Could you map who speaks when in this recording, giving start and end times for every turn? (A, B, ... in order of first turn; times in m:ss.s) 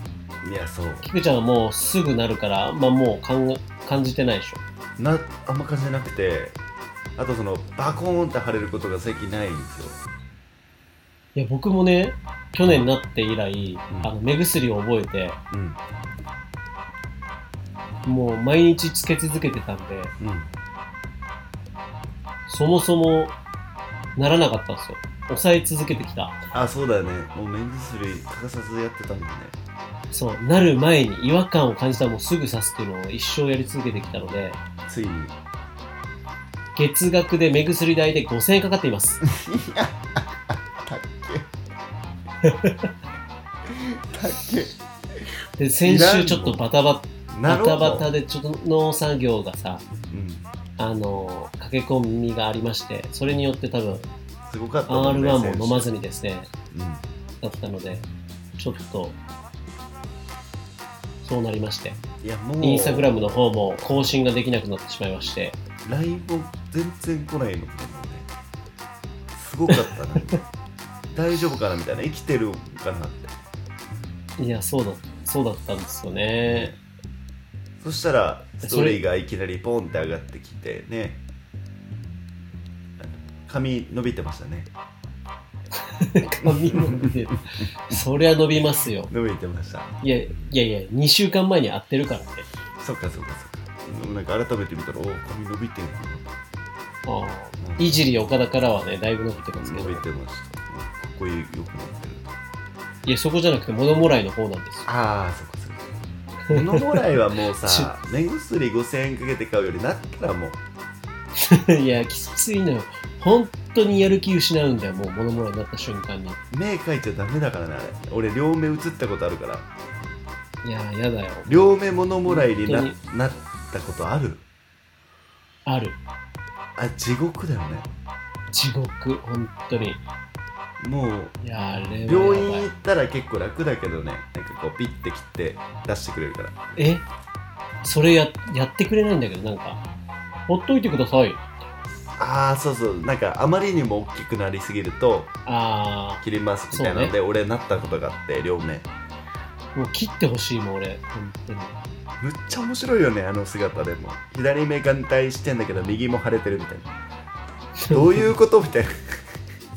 0:00.4-0:01.1 A
0:01.0-0:04.6 B
0:05.0-0:06.6 A
0:07.2-0:10.0 A
0:11.4-0:15.4 B
0:15.5-0:15.8 A
0:18.0-0:20.1 B
0:20.2-0:20.5 A
0:22.5-0:23.4 B
0:24.2-0:26.4 B
0:26.5-0:29.6 A
0:30.1-0:34.6 B
0:34.8-0:35.4 A
0:36.8-0:39.2 B
0:39.2-0:41.5 A
0:42.4-0:42.9 B
0:43.7-0:45.2 A
0:45.6-0:49.8 B
0:45.8-0:46.6 A
0:47.3-0:48.1 A
0:50.1-0:50.5 A
0:50.8-0:54.1 B
0:54.5-0:55.9 A
0:54.9-0:56.5 B
0:56.7-0:57.0 A
0:57.4-0:58.1 B
0:58.6-0:59.2 B
1:01.2-1:02.0 B
1:02.2-1:03.9 A
1:02.6-1:05.6 B
1:05.8-1:08.3 A
1:09.3-1:10.4 A
1:09.7-1:10.2 B
1:11.1-1:13.4 A
1:14.4-1:16.7 B
1:16.4-1:16.8 A
1:17.8-1:21.2 A
1:18.6-1:19.0 B
1:23.0-1:24.7 A
1:25.8-1:29.1 B
1:26.4-1:28.0 A
1:29.1-1:30.4 A
1:30.0-1:32.4 B
1:32.8-1:36.4 A
1:37.1-1:40.0 B
1:37.6-1:38.0 A
1:39.6-1:42.3 A
1:43.0-1:44.9 B
1:44.9-1:45.8 A
1:46.5-1:46.8 B
1:46.5-1:50.6 A
1:47.6-1:47.9 B
1:51.4-1:56.4 B
1:56.5-1:59.7 A
2:00.6-2:01.6 B
2:01.5-2:04.4 A
2:02.3-2:03.0 B
2:05.7-2:06.0 B
2:06.8-2:07.9 A
2:08.5-2:10.0 B
2:10.8-2:11.4 A
2:11.4-2:12.7 B
2:12.0-2:16.8 A
2:16.8-2:17.0 B
2:17.8-2:19.8 B
2:20.5-2:21.7 B
2:22.2-2:25.3 A
2:25.5-2:27.2 B
2:26.2-2:28.9 A
2:29.8-2:31.7 B
2:32.2-2:36.9 A
2:37.8-2:38.3 B
2:37.9-2:39.2 A